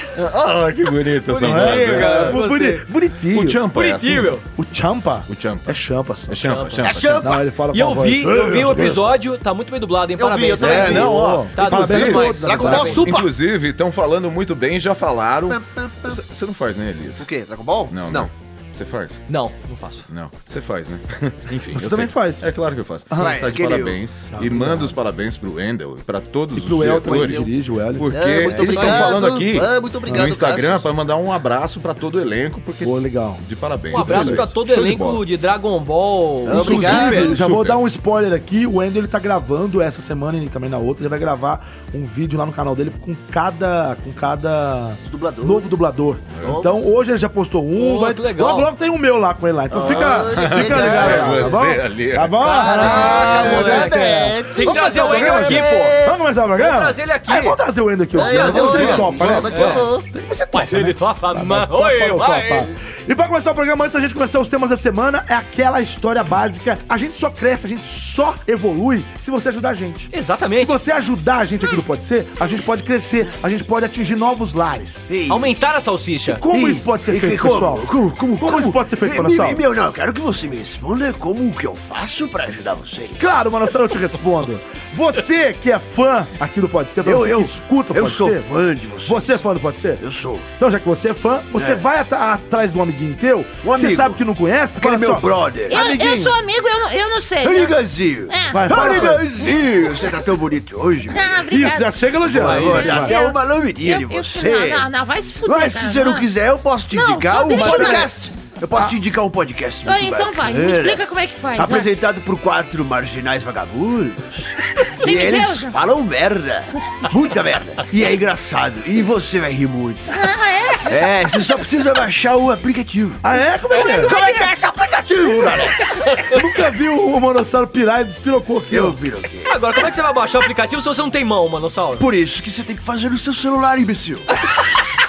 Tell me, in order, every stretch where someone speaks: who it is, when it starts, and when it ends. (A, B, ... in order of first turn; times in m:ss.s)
0:00.2-0:02.4 A
0:01.3-0:02.9 B
0:01.4-0:03.6 C
0:03.3-0:04.4 A
0:03.7-0:04.4 B
0:04.6-0:06.6 C
0:05.3-0:07.4 A
0:06.4-0:06.9 B
0:06.8-0:07.4 D
0:07.2-0:09.0 C
0:07.7-0:13.0 B
0:10.2-0:11.2 D
0:10.6-0:17.3 A
0:10.6-0:13.2 C
0:12.0-0:13.3 D
0:15.5-0:16.2 D
0:17.2-0:18.3 D
0:17.9-0:19.2 A
0:19.3-0:20.1 B
0:20.1-0:35.2 A
0:21.7-0:22.5 C
0:23.1-0:23.4 C
0:23.2-0:24.0 D
0:24.3-0:25.0 C
0:26.6-0:28.1 C
0:27.1-0:27.5 D
0:28.1-0:30.9 D
0:28.4-0:29.2 B
0:32.8-0:34.5 C
0:33.9-0:37.4 B
0:36.4-1:15.1 C
0:36.5-0:37.4 D
0:36.7-0:37.8 A
0:45.0-0:45.9 D
0:46.4-0:46.6 A
0:46.4-0:46.8 D
0:47.8-0:48.7 B
0:49.7-0:51.7 D
0:50.2-0:53.0 A
0:52.4-0:56.0 B
0:52.5-0:56.2 D
0:56.6-0:57.6 B
0:58.1-0:59.9 B
0:58.1-1:00.1 D
0:58.6-0:59.5 A
1:00.5-1:02.7 B
1:10.1-1:10.8 B
1:15.1-1:15.5 D
1:15.3-1:16.4 B
1:16.2-1:19.6 C
1:16.5-1:23.2 D
1:23.2-1:28.5 C
1:27.0-1:29.3 D
1:29.0-1:30.0 C
1:30.0-1:30.5 D
1:30.6-1:36.2 C
1:31.6-1:31.8 D
1:33.6-1:34.2 D
1:34.8-1:36.3 D
1:35.7-1:39.6 E
1:37.4-1:41.3 D
1:38.5-1:39.4 C
1:41.1-1:42.0 E
1:41.5-1:43.2 C
1:42.3-1:44.9 D
1:42.4-1:42.9 B
1:42.6-1:46.3 E
1:45.4-1:51.0 D
1:46.9-1:48.1 E
1:47.5-1:48.1 C
1:49.8-1:51.9 E
1:51.6-2:00.1 D
1:54.8-1:55.8 E
2:00.1-2:01.1 E
2:00.9-2:06.0 D
2:03.2-2:04.2 C
2:03.7-2:04.1 B
2:06.2-2:09.0 C
2:08.7-2:09.6 D
2:09.4-2:12.1 B
2:12.0-2:14.4 D